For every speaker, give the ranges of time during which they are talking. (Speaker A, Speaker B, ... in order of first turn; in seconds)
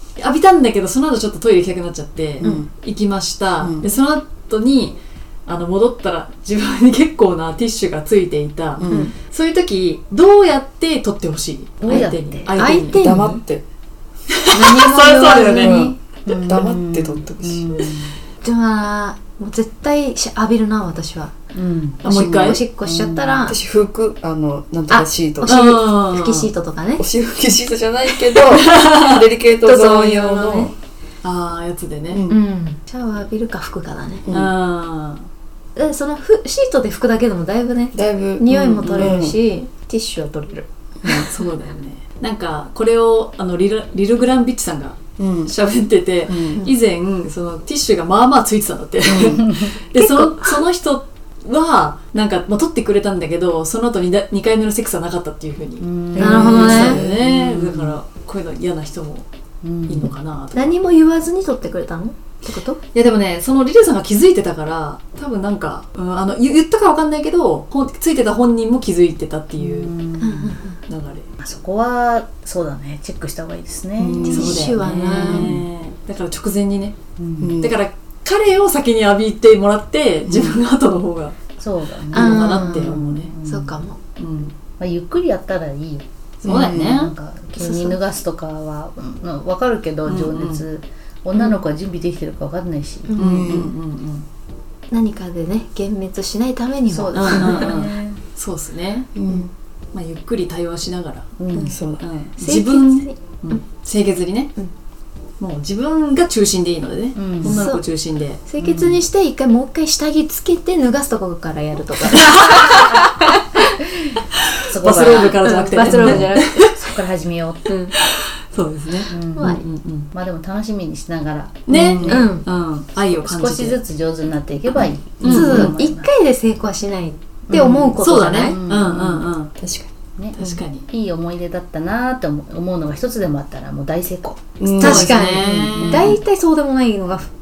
Speaker A: 0.2-13.0, 14.5-15.7, 22.0-22.6, 25.5-26.5, 28.5-29.2, 31.2-32.2, 34.3-35.3, 38.8-39.2, 41.0-59.3, 59.9-60.7, 62.9-69.9, 70.9-71.2, 74.3-77.0, 77.5-81.4, 82.1-83.3, 84.2-84.5, 86.4-87.1, 90.0-90.6, 93.2-94.2, 97.1-99.1, 99.9-101.3, 102.0-104.5, 105.4-108.4, 114.7-116.7, 118.2-120.1, 121.7-123.8, 125.2-125.7, 127.5-129.5, 130.3-130.9, 134.8-136.2
Speaker B: 2.4-2.6, 8.9-9.1, 11.9-13.4, 14.5-16.0, 18.4-21.3, 22.0-23.6, 24.9-27.0, 29.6-30.7, 32.3-34.3, 35.8-40.7, 49.9-50.6, 56.2-57.0, 60.5-62.8, 70.2-70.7, 74.3-75.6, 82.1-84.0, 87.5-88.0, 93.1-93.5, 94.9-97.7, 101.5-101.8, 102.4-103.6, 107.5-107.8, 108.5-113.4, 115.2-116.8, 117.7-118.0, 119.2-119.6, 122.0-122.5, 125.2-128.6, 134.7-137.3
Speaker C: 2.4-2.7, 3.6-3.8, 8.8-9.1, 12.9-13.6, 14.9-15.9, 16.5-17.8, 22.2-22.6, 23.5-25.7, 27.0-30.7, 32.1-32.4, 34.3-34.5, 37.9-39.4, 45.2-45.5, 46.2-46.7, 49.0-49.4, 56.1-57.2, 74.0-75.6, 77.4-77.7, 80.3-80.6, 86.5-87.0, 93.2-93.7, 99.1-99.5, 101.6-102.0, 129.6-129.9, 134.6-135.3
Speaker D: 11.8-12.6, 16.2-18.2, 21.5-22.3, 22.8-23.5, 49.4-49.8, 55.8-58.0, 59.6-60.1, 69.6-70.6, 71.4-74.5, 77.2-77.5, 81.6-83.8, 84.8-93.7, 96.9-98.2, 101.4-101.8, 107.2-107.6, 108.6-108.9, 114.7-117.7, 119.1-119.6, 120.1-122.3, 123.0-126.1, 127.5-129.3, 130.2-134.6, 135.3-136.1